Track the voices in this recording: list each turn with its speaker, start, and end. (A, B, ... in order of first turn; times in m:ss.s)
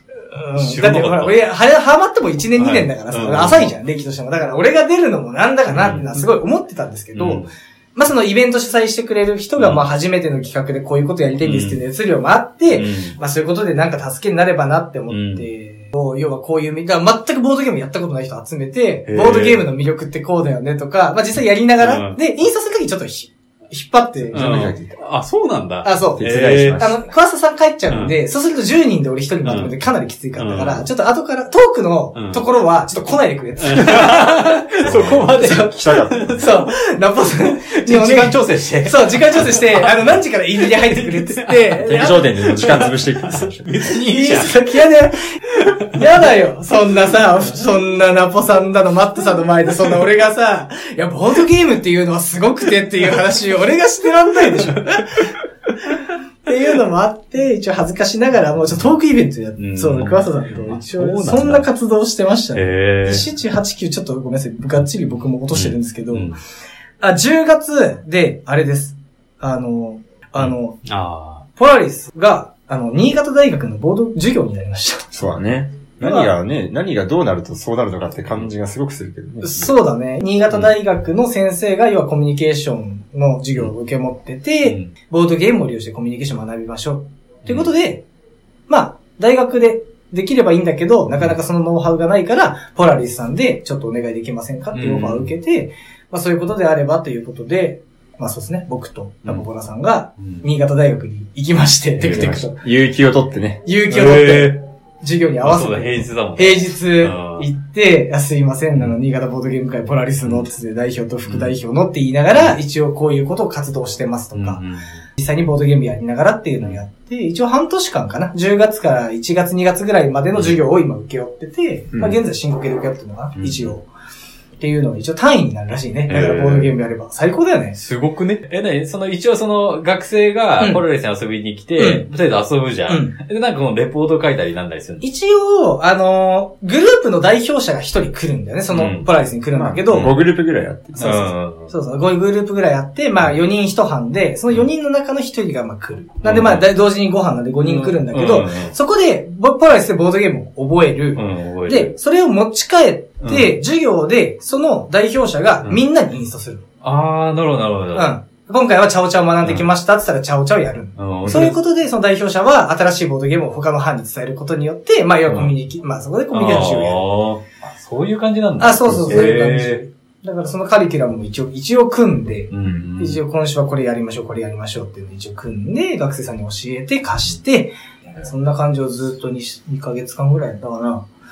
0:00.3-0:24.8 A
0:00.6-0:01.4 B
0:02.6-0:03.7 B
0:05.7-0:06.1 B
0:07.1-0:07.5 B
0:09.6-0:09.9 B
0:11.4-0:11.8 B
0:12.7-0:13.2 B
0:15.1-0:15.5 B
0:19.1-0:19.6 B
0:21.8-0:22.2 B
0:24.3-0:25.0 C
0:24.3-0:26.9 B
0:25.8-0:34.3 A
0:26.2-0:27.0 C
0:27.9-0:28.1 B
0:29.4-0:29.8 B
0:30.4-0:30.9 B
0:32.2-0:32.5 B
0:33.6-0:36.7 B
0:34.8-0:36.4 C
0:35.3-0:35.8 A
0:36.3-0:42.3 A
0:37.5-0:44.9 B
0:41.8-0:43.8 C
0:43.9-0:45.2 A
0:45.5-0:46.0 B
0:45.9-0:55.4 A
0:56.0-1:06.3 A
0:59.6-1:01.7 B
1:02.5-1:03.3 B
1:05.5-1:06.4 B
1:07.0-1:10.8 A
1:10.4-1:11.5 B
1:11.6-1:15.1 A
1:15.1-1:19.6 C
1:16.0-1:16.3 A
1:19.4-1:28.0 A
1:24.6-1:24.9 B
1:27.4-1:27.7 B
1:28.7-1:42.6 A
1:34.7-1:35.3 B
1:40.2-1:40.5 B
1:42.0-1:42.3 B
1:42.0-1:43.6 C
1:43.6-1:54.6 A
1:43.9-1:44.6 B
1:45.4-1:47.5 B
1:50.2-1:50.5 B
1:51.3-1:51.6 B
1:54.3-1:55.0 B
1:55.2-2:03.9 A
2:00.3-2:00.6 B
2:03.4-2:03.8 B
2:04.6-2:07.8 A
2:06.1-2:06.7 B
2:07.8-2:15.0 B
2:10.6-2:10.8 A
2:11.8-2:12.0 A
2:12.9-2:13.2 A
2:15.0-2:20.1 A
2:18.7-2:19.1 B
2:19.5-2:21.2 C
2:19.9-2:20.2 B
2:21.0-2:21.7 B
2:21.0-2:36.6 A
2:26.2-2:26.7 B
2:27.6-2:28.8 B
2:31.2-2:32.0 B
2:33.2-2:33.6 B
2:36.8-2:38.2 B
2:37.9-2:47.0 A
2:39.4-2:39.7 B
2:41.0-2:41.6 B
2:45.3-2:45.5 B
2:46.3-2:49.8 B
2:48.6-3:01.0 A
2:49.0-2:49.2 C
2:52.5-2:53.2 B